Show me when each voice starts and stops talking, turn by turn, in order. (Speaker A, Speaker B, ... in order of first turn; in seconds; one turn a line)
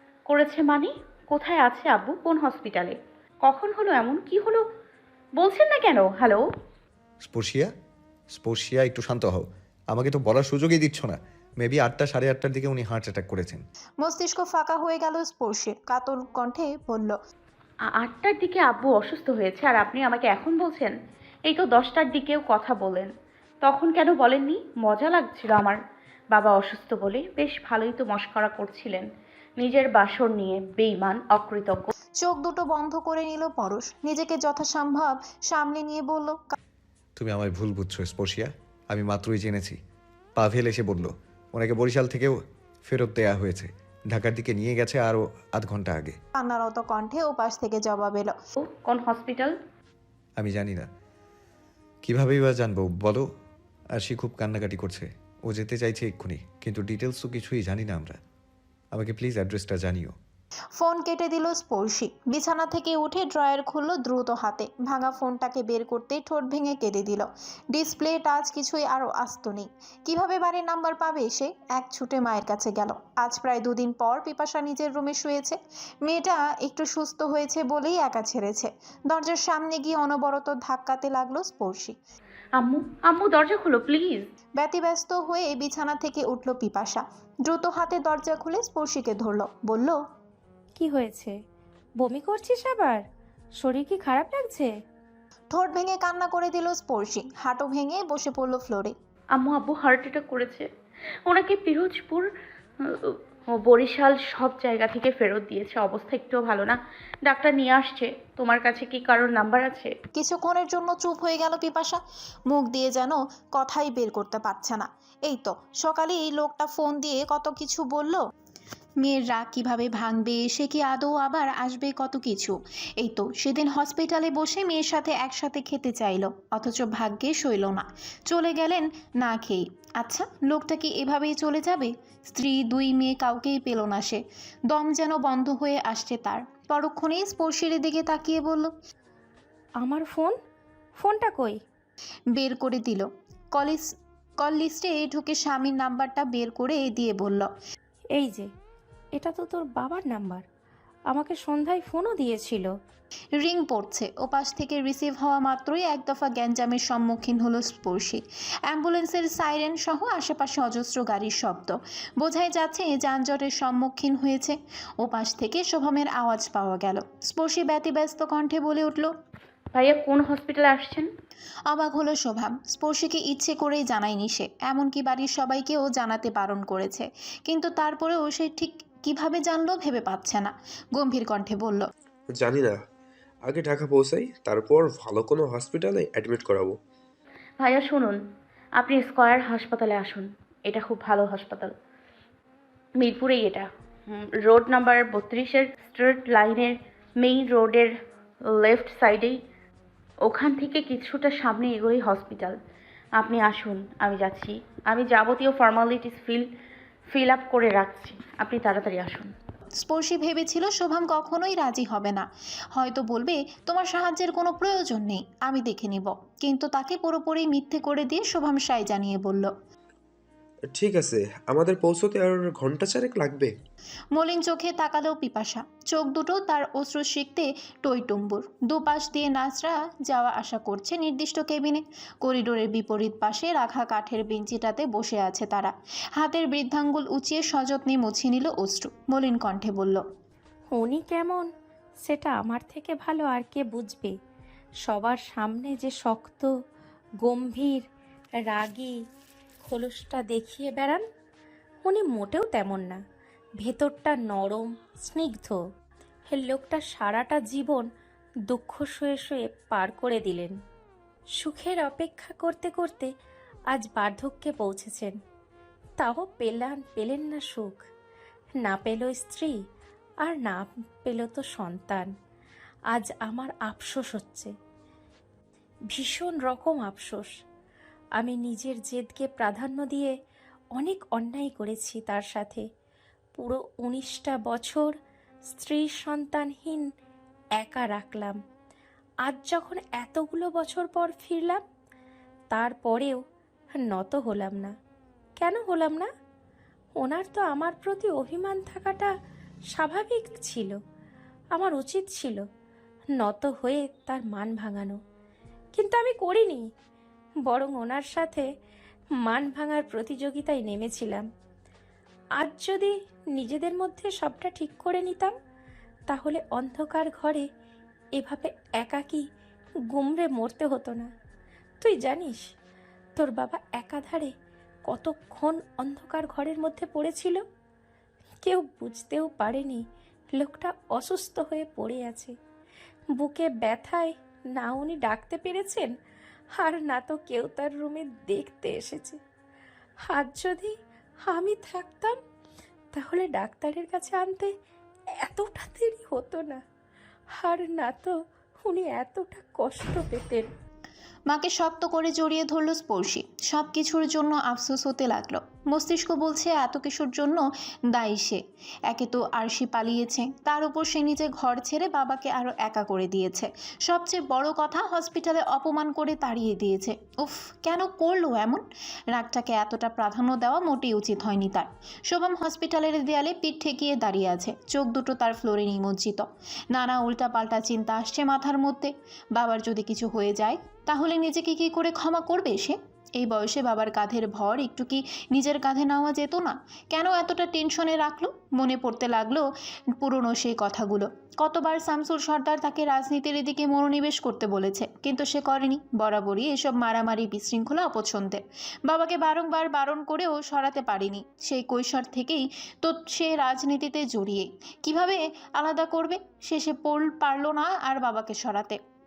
Speaker A: 0.3-4.6
Speaker A: 5.4-6.4
Speaker B: 7.2-7.7
Speaker B: 8.3-13.6
Speaker C: 14.0-17.1
Speaker A: 18.0-20.9
Speaker A: 21.5-23.1
Speaker A: 23.6-25.8
Speaker A: 26.3-29.1
Speaker A: 29.6-31.9
Speaker C: 32.2-36.6
Speaker B: 37.2-39.8
Speaker B: 40.4-46.2
Speaker C: 46.4-48.3
Speaker A: 48.7-49.5
Speaker B: 50.4-50.9
Speaker B: 52.0-53.2
Speaker B: 54.0-58.2
Speaker B: 58.9-60.1
Speaker C: 60.8-82.0
Speaker A: 82.6-84.3
Speaker C: 84.6-90.0
Speaker D: 90.8-91.3
Speaker D: 92.0-93.0
Speaker D: 93.6-94.7
Speaker C: 95.5-98.9
Speaker A: 99.3-100.7
Speaker A: 101.3-102.3
Speaker A: 102.9-109.9
Speaker C: 110.1-118.2
Speaker C: 119.0-138.7
Speaker D: 139.8-140.3
Speaker D: 141.0-141.6
Speaker C: 142.3-147.5
Speaker D: 148.1-148.5
Speaker D: 149.2-150.4
Speaker D: 151.1-152.7
Speaker C: 153.4-169.1
Speaker A: 169.7-171.1
Speaker C: 171.7-181.9
Speaker E: 182.4-182.8
Speaker E: 183.5-186.8
Speaker A: 187.6-188.2
Speaker A: 188.8-191.7
Speaker A: 193.0-197.9
Speaker A: 198.6-199.4
Speaker A: 200.3-202.6
Speaker A: 203.2-206.4
Speaker A: 207.1-209.3
Speaker C: 209.8-219.5
Speaker E: 220.7-223.5
Speaker C: 224.1-240.0
Speaker D: 240.7-241.5
Speaker D: 242.0-244.1
Speaker D: 244.8-246.5
Speaker D: 247.2-247.8
Speaker D: 248.5-248.9
Speaker D: 249.7-251.0
Speaker D: 251.8-253.0
Speaker D: 253.6-255.6
Speaker D: 256.3-257.9
Speaker D: 258.5-260.5
Speaker D: 261.4-263.1
Speaker D: 263.7-265.1
Speaker D: 266.0-267.8
Speaker D: 268.6-269.5
Speaker D: 270.2-272.1
Speaker D: 272.9-274.5
Speaker D: 275.9-277.3
Speaker D: 278.2-280.1
Speaker D: 280.8-282.6
Speaker D: 283.4-284.9
Speaker D: 285.5-286.9
Speaker D: 287.6-288.4
Speaker D: 289.2-291.6
Speaker D: 292.5-293.2
Speaker D: 293.8-294.7
Speaker D: 295.4-296.1
Speaker D: 297.0-299.1
Speaker D: 299.7-300.8
Speaker D: 301.5-302.4
Speaker D: 303.2-304.9
Speaker D: 305.7-306.6
Speaker D: 307.5-308.4
Speaker D: 309.2-311.2
Speaker D: 312.4-315.3
Speaker D: 316.1-317.4
Speaker D: 318.2-319.2
Speaker D: 319.9-321.1
Speaker D: 321.8-322.4
Speaker D: 323.2-324.3
Speaker D: 324.9-327.4
Speaker D: 328.4-329.8
Speaker D: 330.3-332.3
Speaker D: 333.2-335.9
Speaker D: 336.6-339.2
Speaker D: 340.1-340.7
Speaker D: 341.3-342.2
Speaker D: 342.9-344.5
Speaker D: 345.2-346.6
Speaker D: 347.4-348.1
Speaker D: 348.6-350.5
Speaker C: 351.3-389.4
Speaker C: 390.0-408.8